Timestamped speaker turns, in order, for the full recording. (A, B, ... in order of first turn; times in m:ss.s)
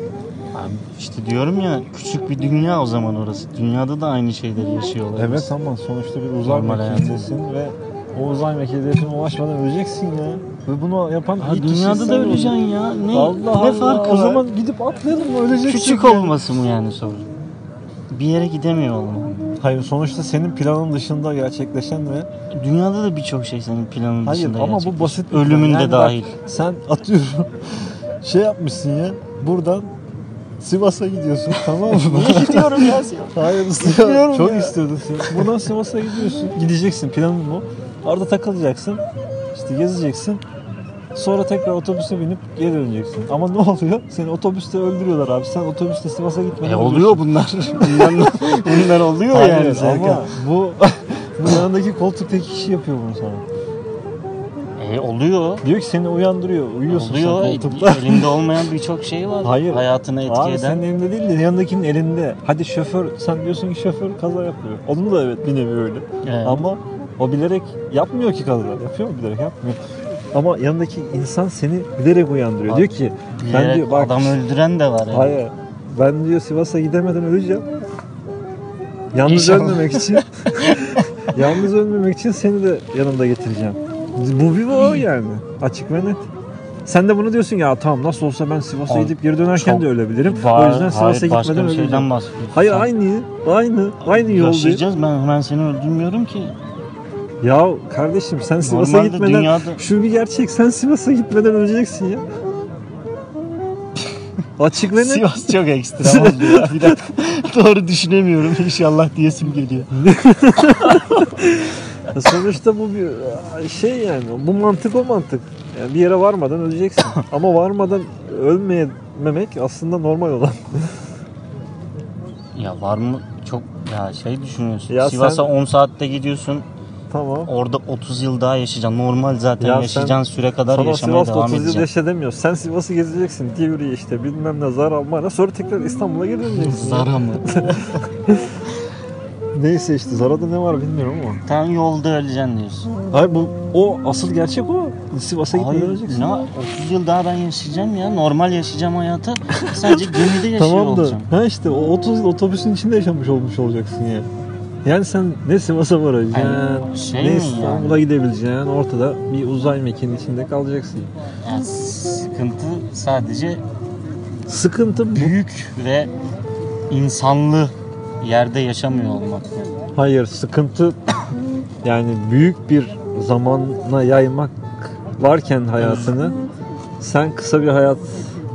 0:00.5-0:05.5 A
0:05.2-0:12.6 B
0:06.4-0:07.3 A
0:11.4-0:14.4 A
0:13.1-0:16.4 B
0:15.6-0:17.3 A
0:18.1-0:19.6 A
0:19.6-0:22.3 B
0:22.5-0:26.4 A
0:24.2-0:29.9 B
0:30.6-0:40.4 B
0:31.6-0:35.6 A
0:41.1-0:53.4 B
0:46.6-0:50.3 A
0:54.8-0:55.6 A
0:55.6-0:58.4 B
0:56.9-1:00.8 A
0:59.4-1:09.8 B
1:06.2-1:06.7 A
1:10.3-1:14.4 B
1:12.7-1:15.4 A
1:15.1-1:17.7 B
1:19.1-1:26.3 B
1:19.2-1:21.2 A
1:26.9-1:34.8 B
1:28.9-1:32.9 A
1:34.0-1:36.6 A
1:37.4-1:42.2 B
1:38.6-1:39.8 A
1:44.6-1:45.3 B
1:44.9-1:49.9 A
1:46.0-1:47.0 B
1:50.0-2:01.0 B
2:02.6-2:06.6 A
2:04.9-2:05.5 B
2:07.1-2:07.5 B
2:07.5-2:11.9 A
2:09.6-2:18.6 B
2:16.5-2:18.0 A
2:19.5-2:21.4 B
2:21.5-2:22.9 A
2:23.1-2:26.3 B
2:25.5-2:31.3 A
2:29.7-2:34.3 B
2:34.8-2:41.1 B
2:36.3-2:38.0 A
2:41.4-2:43.6 A
2:44.5-2:45.4 B
2:45.1-2:46.1 A
2:46.9-2:49.6 A
2:49.9-2:51.0 B
2:51.8-2:56.4 B
2:55.8-2:56.1 A
2:57.0-2:58.4 B